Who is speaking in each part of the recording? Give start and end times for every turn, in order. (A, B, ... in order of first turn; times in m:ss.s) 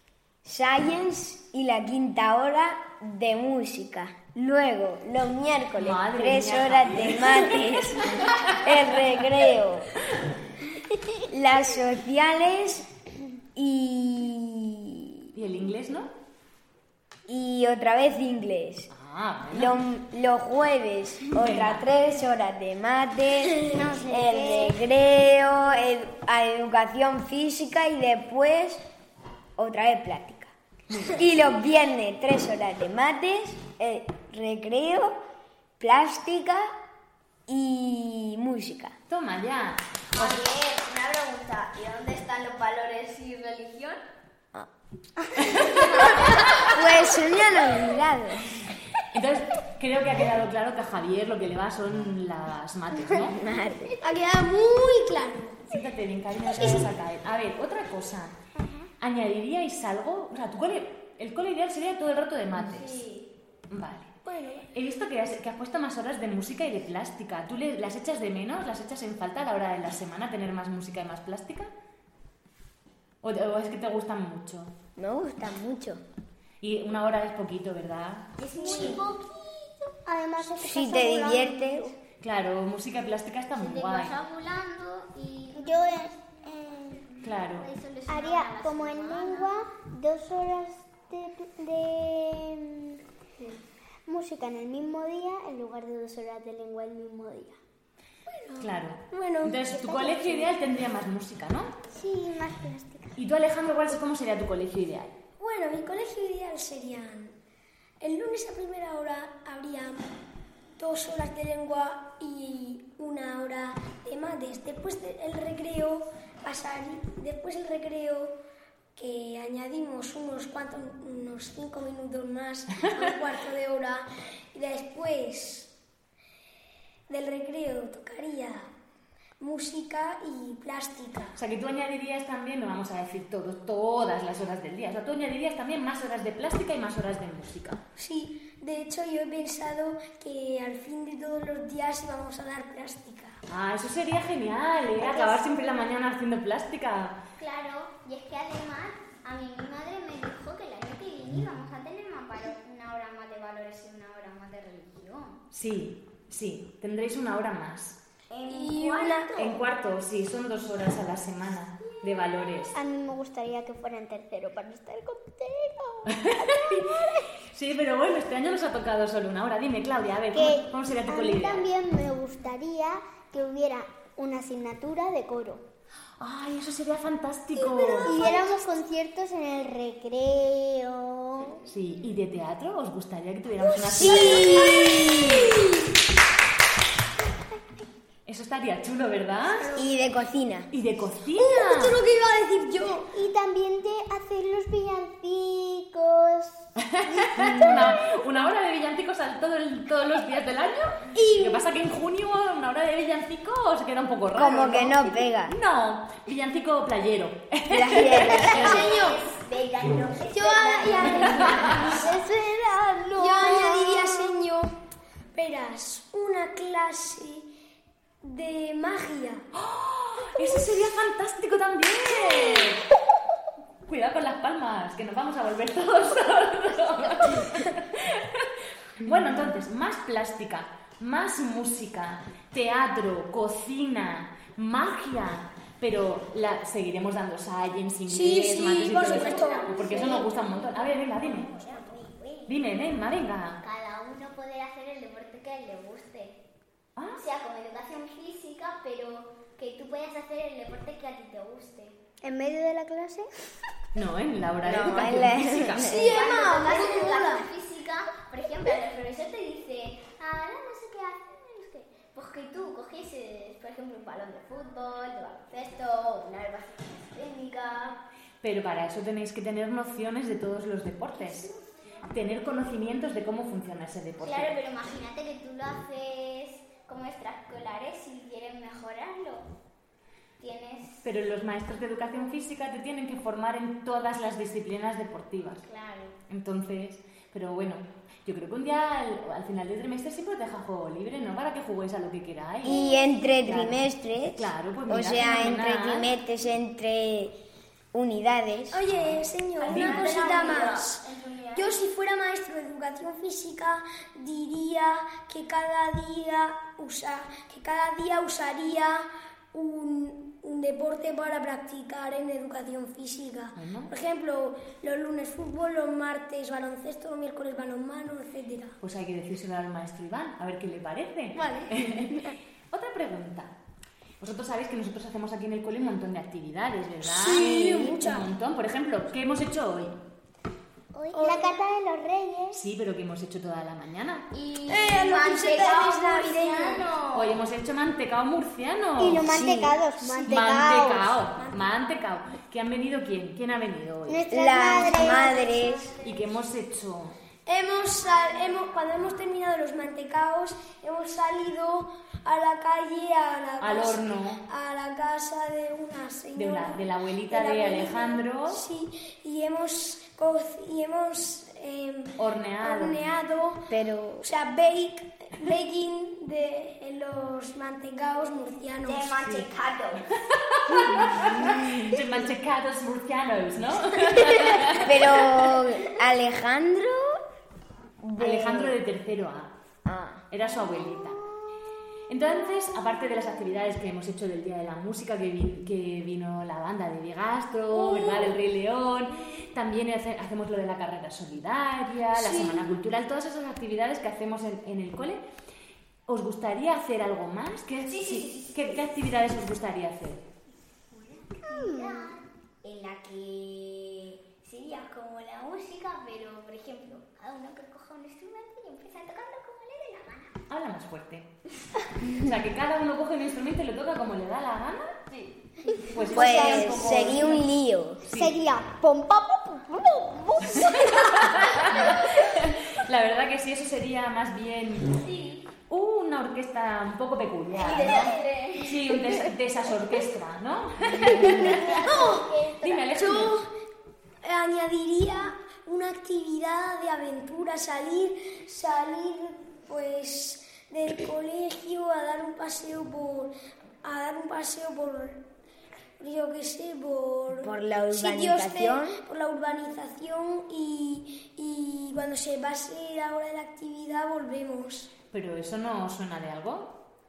0:00.4-0:10.0 A
0:05.8-0:08.7 B
0:11.3-0:12.9 A
0:13.6-0:15.3 A
0:15.3-0:16.1 B
0:17.3-0:18.9 A
0:18.9-0:19.8 B
0:19.5-0:28.8 A
0:21.3-0:21.8 B
0:23.6-0:24.8 C
0:29.6-0:30.5 A
0:30.9-0:31.3 B
0:31.1-0:35.2 A
0:35.8-0:36.7 A
0:37.5-0:39.0 A
0:39.1-0:40.4 B
0:40.1-0:44.0 D
0:45.5-0:46.7 D
0:45.6-0:46.0 B
0:46.6-0:48.6 A
0:49.0-0:53.4 B
0:53.2-0:54.0 A
0:54.0-0:55.6 E
0:55.7-0:58.3 B
0:59.0-1:03.0 B
1:02.6-1:03.3 D
1:03.7-1:04.1 B
1:04.2-1:04.7 E
1:04.7-1:11.7 B
1:13.2-1:14.7 B
1:15.0-1:16.0 A
1:16.6-1:18.3 B
1:18.4-1:19.1 D
1:18.5-1:21.9 C
1:20.6-1:21.9 A
1:22.2-1:24.1 B
1:23.6-1:26.1 D
1:25.5-1:27.1 C
1:27.2-1:29.5 D
1:27.2-1:27.7 B
1:28.1-1:33.0 C
1:34.0-1:37.6 C
1:38.3-1:40.5 E
1:38.6-1:41.7 B
1:41.9-1:43.2 C
1:43.2-1:45.2 B
1:45.4-1:47.3 E
1:48.0-1:50.0 E
1:50.8-1:58.3 E
1:59.0-2:05.7 E
2:07.1-2:08.7 E
2:09.4-2:11.4 E
2:11.4-2:17.8 B
2:18.0-2:23.4 E
2:23.5-2:27.2 B
2:27.4-2:35.4 D
2:35.5-2:38.0 B
2:38.3-2:39.6 D
2:38.5-2:39.4 E
2:39.4-2:42.8 B
2:42.5-2:47.3 C
2:46.1-2:51.7 B
2:50.3-2:55.6 C
2:56.2-2:58.2 B
2:57.6-3:01.6 C
3:01.7-3:04.8 B
3:03.9-3:05.1 C
3:03.9-3:05.6 A
3:04.3-3:04.8 E
3:08.2-3:09.7 B
3:09.4-3:09.9 E
3:09.7-3:10.7 A
3:10.7-3:12.0 B
3:11.3-3:13.1 E
3:13.1-3:16.6 C
3:16.8-3:28.8 B
3:17.2-3:18.0 C
3:21.1-3:21.6 E
3:24.3-3:25.6 A
3:27.7-3:28.9 A
3:28.4-3:32.1 D
3:28.5-3:29.2 E
3:30.3-3:32.0 E
3:31.4-3:31.9 B
3:31.7-3:34.3 C
3:33.2-3:34.7 E
3:35.3-3:37.5 E
3:38.2-3:39.4 E
3:39.5-3:42.9 B
3:43.8-4:01.5 B
3:58.1-4:00.2 E
3:58.9-4:02.5 D
3:59.9-4:00.2 C
4:02.5-4:03.6 B
4:03.6-4:06.4 D
4:07.0-4:07.2 B
4:07.2-4:12.0 D
4:12.2-4:13.3 C
4:13.9-4:16.0 B
4:14.6-4:16.2 A
4:15.8-4:17.5 E
4:16.0-4:28.0 D
4:28.4-4:31.5 B
4:31.2-4:31.9 D
4:32.1-4:34.5 B
4:34.2-4:39.5 D
4:40.4-4:41.0 D
4:41.0-4:45.6 B
4:45.6-4:46.2 D
4:46.3-4:52.8 B
4:52.6-4:57.4 A
4:52.7-4:53.1 D
4:53.4-4:56.1 B
4:57.9-4:58.9 A
4:58.7-5:18.8 E
4:58.9-5:00.3 B
4:59.6-5:01.8 D
5:13.6-5:13.9 B
5:18.8-5:23.5 B
5:21.3-5:22.0 E
5:24.2-5:30.0 B
5:27.0-5:28.3 E
5:27.2-5:27.9 A
5:30.9-5:32.6 C
5:31.1-5:31.5 E
5:32.5-5:34.3 B
5:34.3-5:37.4 D
5:34.7-5:36.9 E
5:37.1-5:39.4 B
5:39.0-5:41.1 C
5:39.2-5:39.8 A
5:40.2-5:44.2 B
5:44.1-5:45.8 C
5:44.3-5:45.9 A
5:45.2-5:45.5 D
5:46.0-5:47.2 B
5:47.5-6:03.7 E
5:47.9-5:49.0 D
5:53.6-5:54.4 B
5:56.4-5:58.6 B
6:02.2-6:03.0 B
6:03.7-6:04.2 A
6:04.2-6:09.2 E
6:08.8-6:10.2 D
6:10.2-6:15.4 B
6:14.6-6:17.2 A
6:18.0-6:18.8 A
6:18.2-6:19.5 B
6:19.8-6:20.3 A
6:20.3-6:21.2 B
6:22.1-6:35.2 B
6:32.2-6:32.6 E
6:36.1-6:40.2 B
6:37.8-6:38.9 D
6:40.9-6:50.4 D
6:41.4-6:42.1 C
6:50.5-6:51.3 B
6:52.0-6:55.0 B
6:55.1-6:56.4 D
6:55.7-6:57.3 C
6:55.9-6:57.5 B
6:56.1-6:58.0 A
6:58.0-6:58.4 B
6:58.1-7:02.0 C
7:00.5-7:05.0 B
7:04.9-7:05.5 D
7:05.7-7:12.1 B
7:07.5-7:09.2 D
7:11.1-7:13.1 D
7:11.4-7:12.4 E
7:12.6-7:13.4 B
7:12.9-7:13.5 E
7:14.2-7:23.3 E
7:23.8-7:25.2 E
7:26.0-7:34.9 E
7:27.4-7:29.0 A
7:35.1-7:36.8 B